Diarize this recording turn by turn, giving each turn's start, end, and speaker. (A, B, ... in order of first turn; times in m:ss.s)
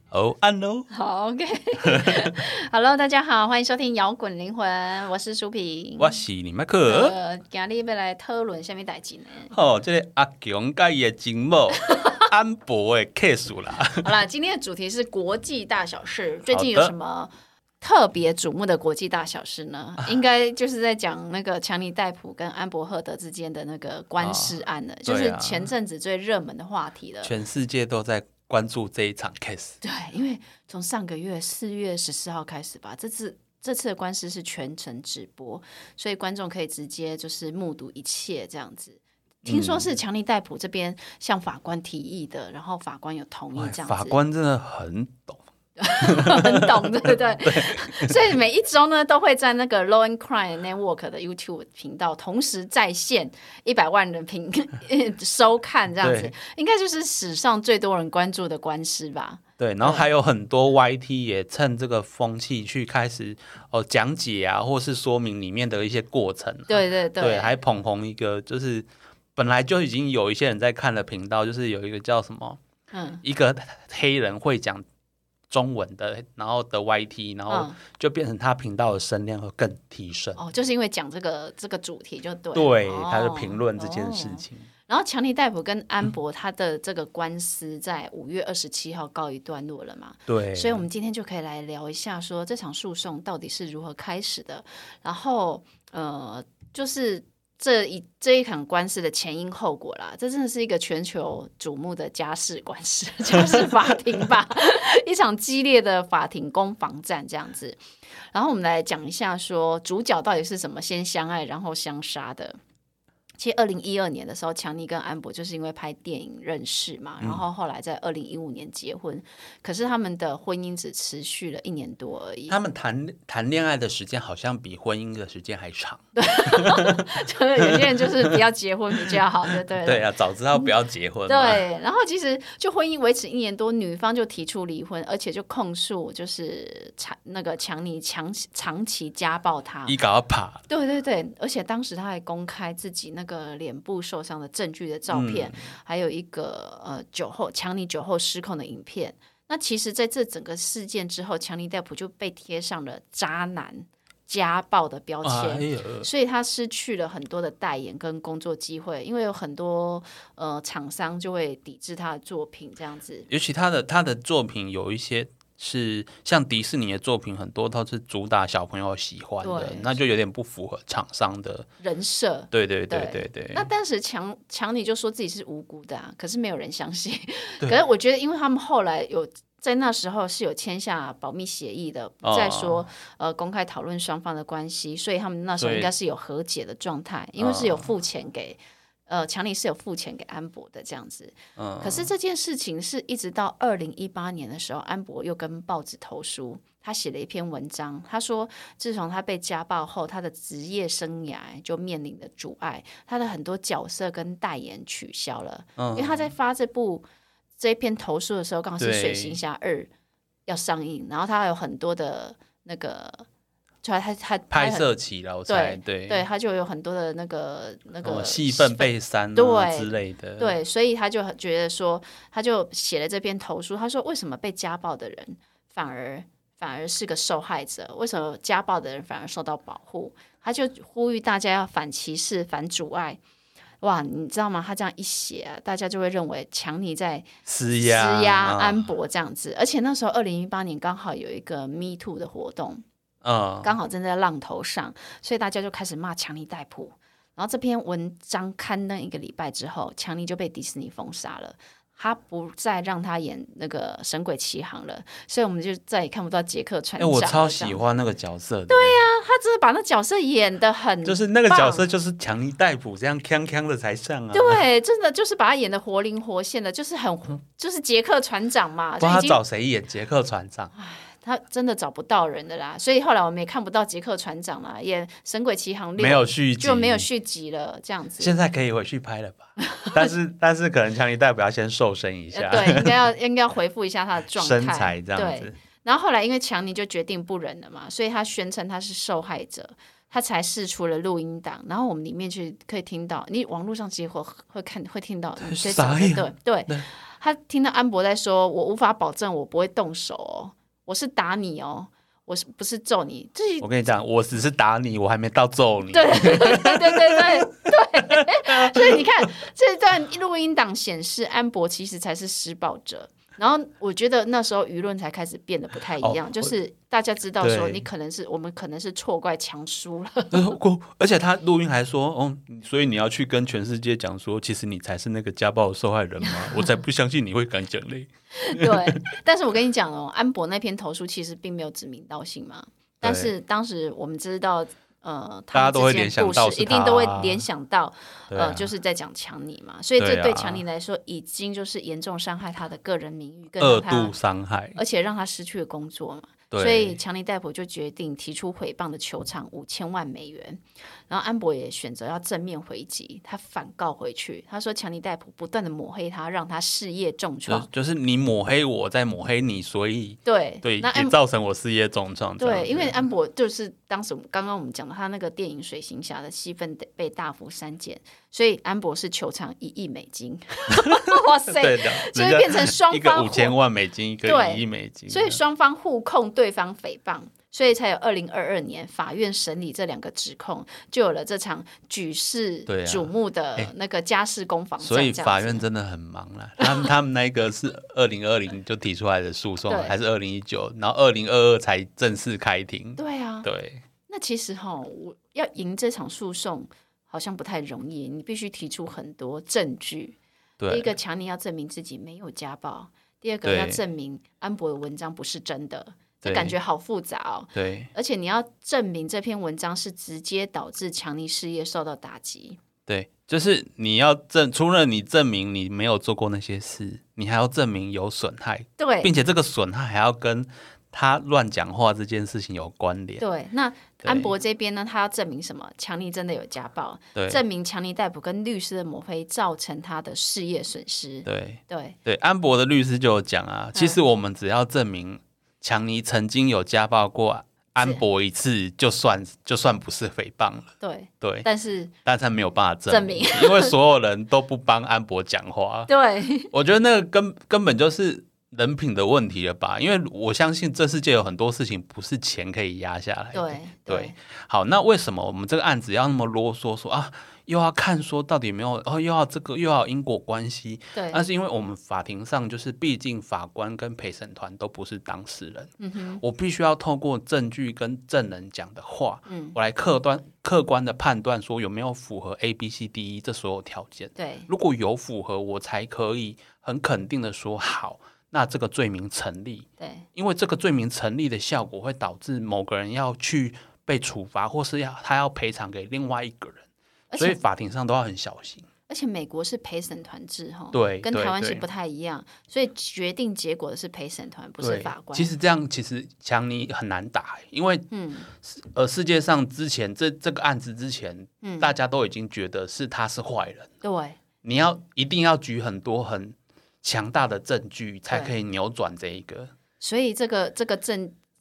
0:00.1-0:00.9 A
0:00.9-0:06.2 B
0:01.8-0:02.4 A
0:06.0-0:07.2 A
0:06.9-0:09.5 B
0:09.5-0:14.1 A
0:11.9-0:12.2 B
0:14.0-0:27.3 B
0:16.5-0:16.9 A
0:24.2-0:25.7 A
0:27.2-0:29.8 A
0:29.8-0:44.2 B
0:39.4-0:39.9 A
0:43.6-0:45.4 A
0:45.8-1:00.0 B
0:46.0-0:48.2 A
0:56.0-0:56.3 A
0:59.6-1:12.6 A
1:06.7-1:07.5 B
1:12.9-1:13.2 B
1:13.2-1:14.8 A
1:15.5-1:20.4 A
1:17.5-1:17.8 B
1:20.4-1:47.8 B
1:22.5-1:24.7 A
1:30.3-1:30.8 A
1:48.3-1:52.6 B
1:53.4-2:02.6 B
2:02.5-2:08.4 A
2:06.2-2:10.7 B
2:09.0-2:11.6 A
2:11.3-2:20.0 B
2:19.9-2:20.6 A
2:20.7-2:43.3 B
2:25.1-2:25.6 A
2:35.2-2:36.1 A
2:43.3-2:51.7 A
2:49.4-2:49.9 B
2:51.8-3:27.1 B
2:52.5-2:53.7 A
3:02.2-3:02.9 A
3:05.6-3:05.9 A
3:07.4-3:07.9 A
3:11.6-3:12.1 A
3:25.8-3:26.3 A
3:27.6-3:29.9 B
3:28.8-3:29.4 A
3:30.5-3:33.3 B
3:33.8-3:34.9 B
3:34.5-3:36.2 A
3:35.5-3:53.2 B
3:38.0-3:40.6 A
3:53.8-4:02.8 B
3:57.5-3:58.9 A
4:03.2-4:03.7 A
4:03.6-4:17.8 B
4:17.0-4:19.0 A
4:18.7-4:21.8 B
4:21.0-4:24.6 A
4:24.3-4:29.4 B
4:29.0-4:30.7 A
4:30.8-4:38.3 B
4:36.0-4:37.0 A
4:38.2-4:43.0 A
4:42.3-5:03.7 B
4:44.3-4:45.6 A
4:55.4-4:56.9 A
5:03.6-5:07.5 A
5:05.9-5:20.6 B
5:08.0-5:09.3 A
5:16.0-5:16.5 A
5:17.4-5:17.8 A
5:20.3-5:29.0 A
5:26.2-5:26.7 B
5:28.3-5:44.1 B
5:33.0-5:33.3 A
5:35.5-5:37.4 A
5:38.3-5:38.7 A
5:40.0-5:40.6 A
5:43.6-5:44.8 A
5:44.8-5:57.7 B
5:46.5-5:47.0 A
5:57.5-6:03.0 A
6:00.2-6:01.2 B
6:02.4-6:13.6 B
6:10.8-6:15.4 A
6:14.2-6:25.6 B
6:22.7-6:23.7 A
6:24.8-6:33.8 A
6:29.7-6:30.0 B
6:33.0-6:33.5 B
6:34.1-6:40.2 B
6:40.6-6:40.9 A
6:40.7-6:52.6 B
6:43.4-6:43.8 A
6:46.2-6:46.6 A
6:47.5-6:47.9 A
6:52.9-7:03.2 A
6:58.8-6:59.1 B
7:03.2-7:12.0 B
7:04.0-7:04.3 A
7:07.2-7:07.4 A
7:11.3-7:20.7 A
7:20.8-7:21.9 B
7:21.2-7:21.5 A
7:22.0-7:25.9 A
7:22.9-7:23.7 B
7:25.9-7:26.5 B
7:26.5-8:06.7 A
7:33.3-7:34.2 B
7:40.9-7:41.2 B
7:45.8-7:46.2 B
7:49.3-7:49.6 B
7:54.2-7:54.5 B
7:59.8-8:00.1 B
8:07.1-8:07.4 B
8:07.2-8:08.7 A
8:08.9-8:15.3 B
8:10.7-8:11.6 A
8:14.6-8:23.7 A
8:17.9-8:18.3 B
8:21.4-8:21.7 B
8:23.8-8:24.2 B
8:24.4-8:29.5 A
8:29.8-8:31.2 B